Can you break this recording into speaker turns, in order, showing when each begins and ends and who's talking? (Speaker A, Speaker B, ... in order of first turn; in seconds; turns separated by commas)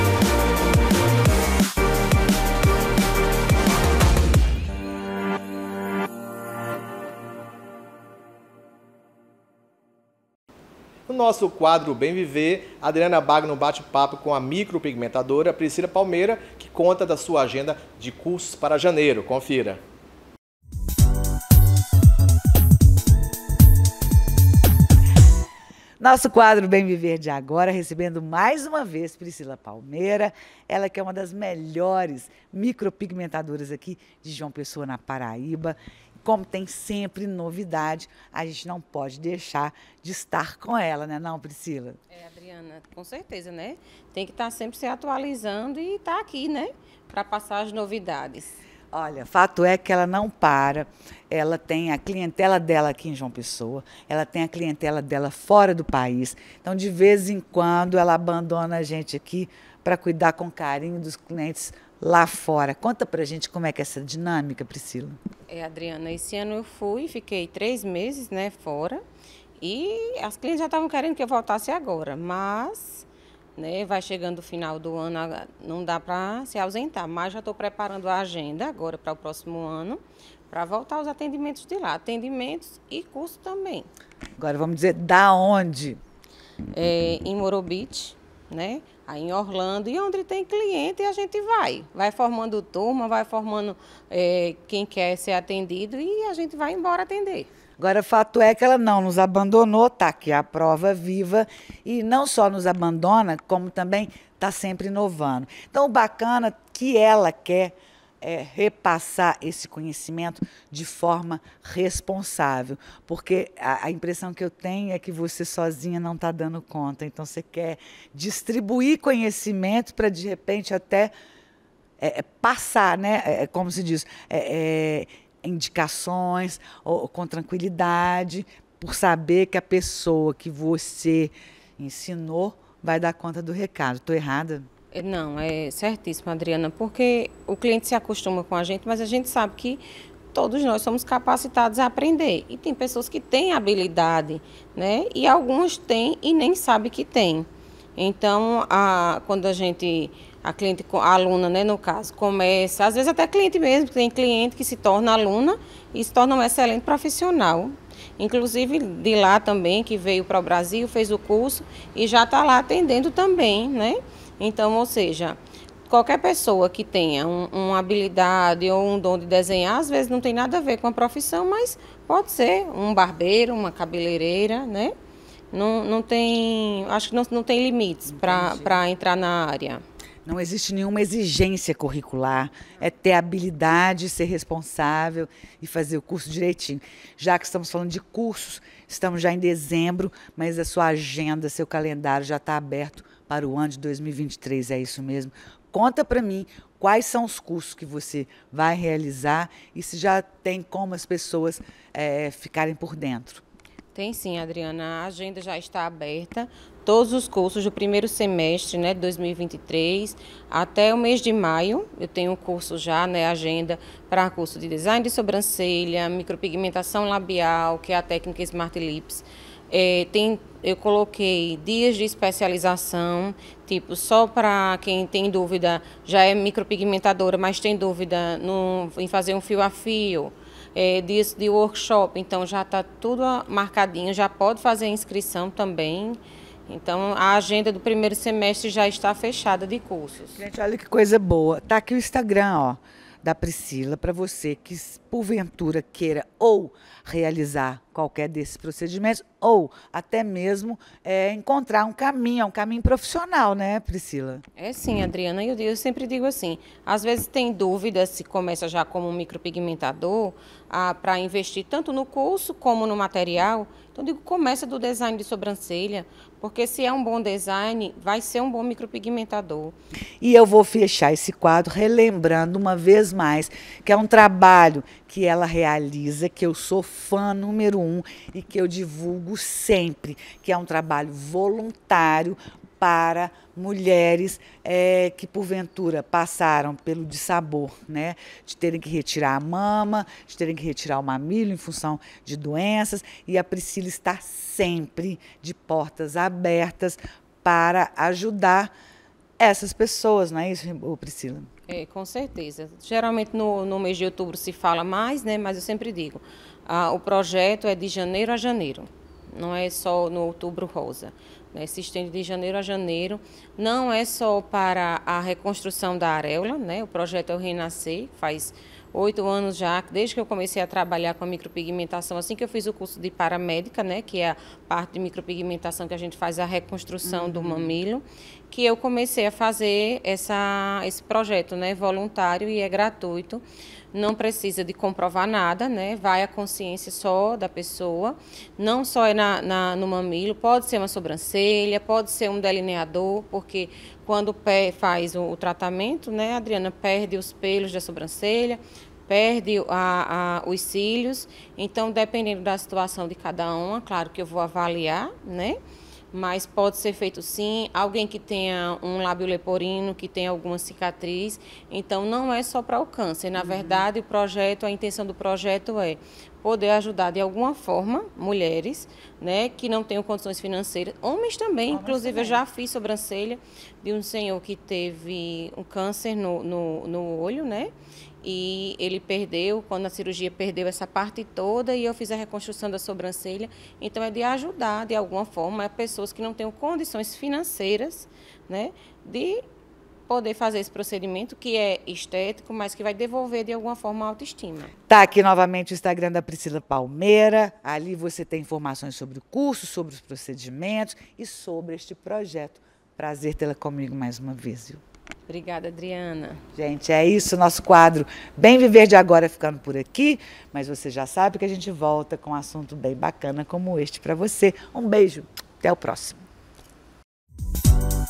Speaker A: 11.1-19.8, Speaker B: 26.0-42.0, Speaker C: 42.1-48.6, Speaker B: 48.9-65.2, Speaker C: 65.5-69.0, Speaker C: 69.6-83.9, Speaker B: 84.4-86.0, Speaker C: 86.7-97.5, Speaker B: 97.8-121.1, Speaker B: 122.0-134.7, Speaker C: 134.9-174.9, Speaker C: 175.5-179.8, Speaker B: 178.1-178.8, Speaker B: 180.2-203.4, Speaker C: 203.9-240.4, Speaker B: 240.3-254.4, Speaker C: 254.6-269.7, Speaker B: 270.2-298.7, Speaker B: 299.4-301.5, Speaker C: 301.7-355.6, Speaker B: 327.0-327.8, Speaker C: 356.1-389.4, Speaker B: 363.3-363.9, Speaker B: 371.7-372.4, Speaker C: 390.1-394.7, Speaker B: 394.9-404.8, Speaker C: 405.3-406.4, Speaker B: 406.6-416.2